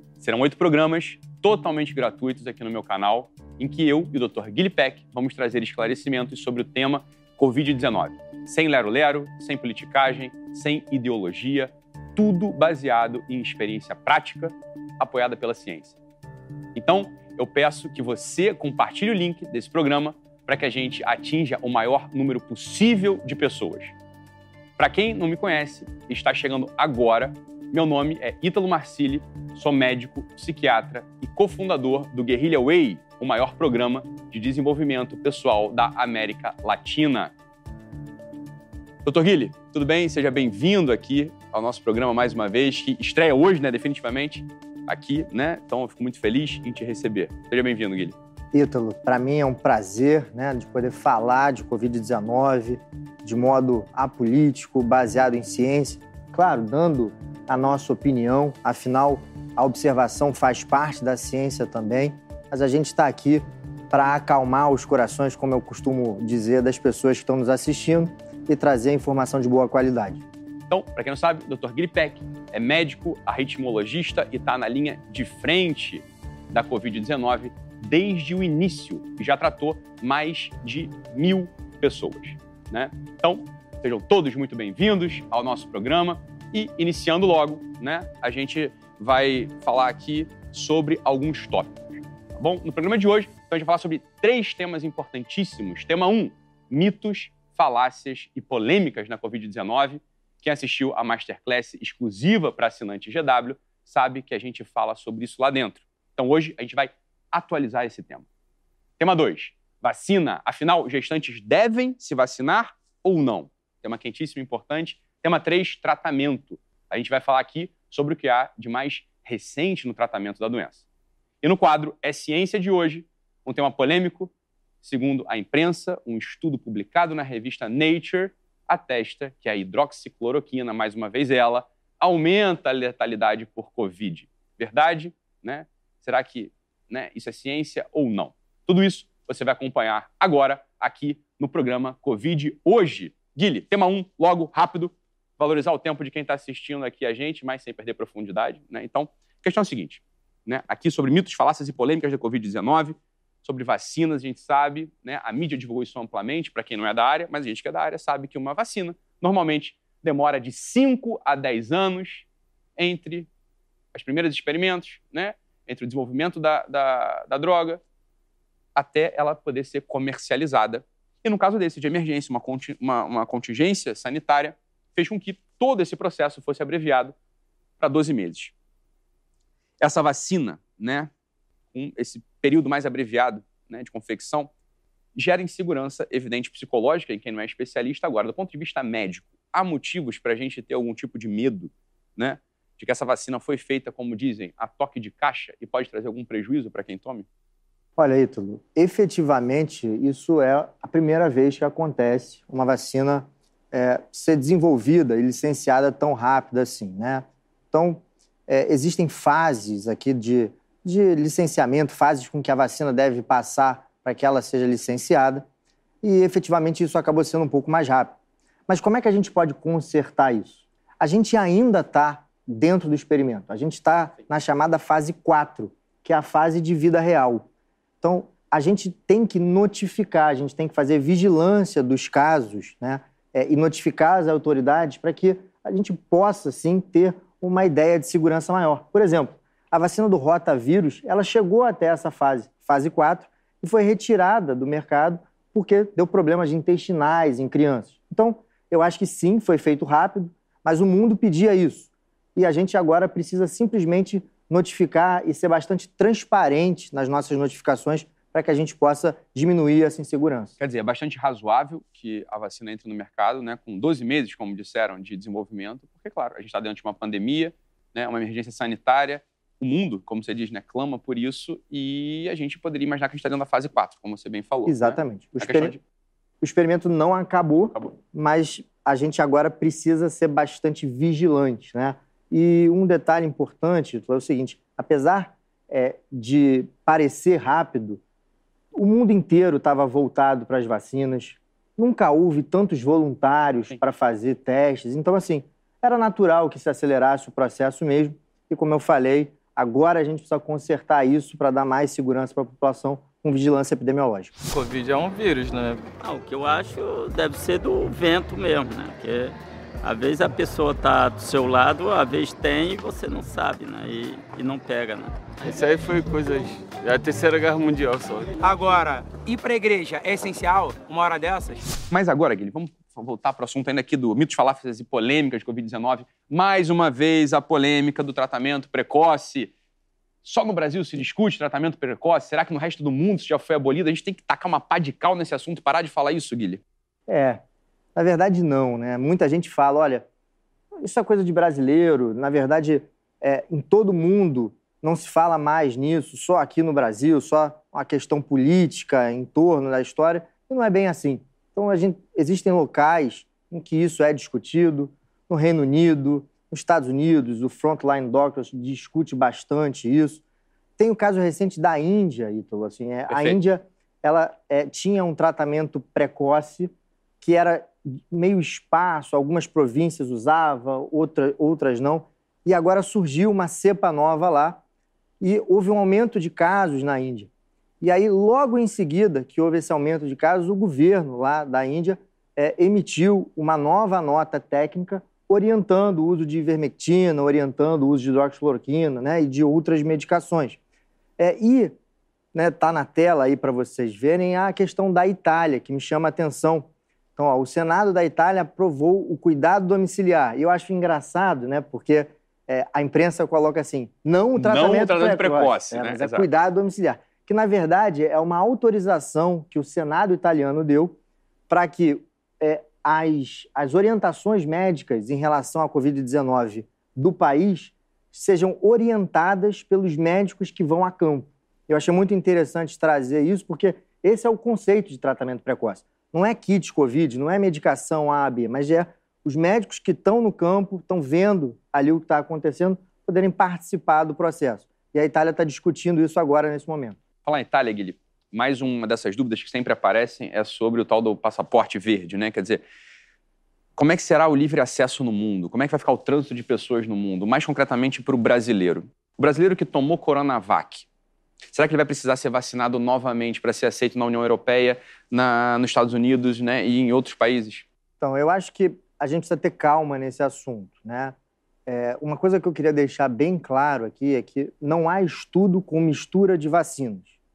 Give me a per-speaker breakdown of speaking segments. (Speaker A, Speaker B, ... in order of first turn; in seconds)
Speaker A: 0.2-16.0, 16.8-23.9, 24.8-37.3, 39.0-48.1, 70.7-108.2, 109.0-120.8, 121.4-124.3, 124.8-162.3, 162.8-163.3, 163.9-167.8, 168.8-177.2, 177.8-178.5, 179.8-181.1, 181.7-184.5, 185.2-197.3, 260.6-275.8, 321.9-329.5, 330.2-336.6, 363.1-363.4, 404.4-406.3, 437.2-442.6, 443.8-450.9, 451.5-457.7
Speaker B: 48.5-70.2, 198.0-215.4, 216.0-218.2, 218.7-227.5, 228.0-260.5, 274.7-275.8, 276.4-288.0, 288.7-304.3, 337.1-337.4, 338.0-340.1, 340.8-360.2, 360.8-374.6, 375.2-377.3, 377.8-390.6, 391.2-391.8, 392.3-411.0, 411.5-437.0, 458.0-461.1, 461.7-467.1
Speaker C: 304.5-305.8, 315.4-318.3
Speaker D: 306.0-315.2
Speaker E: 318.4-321.7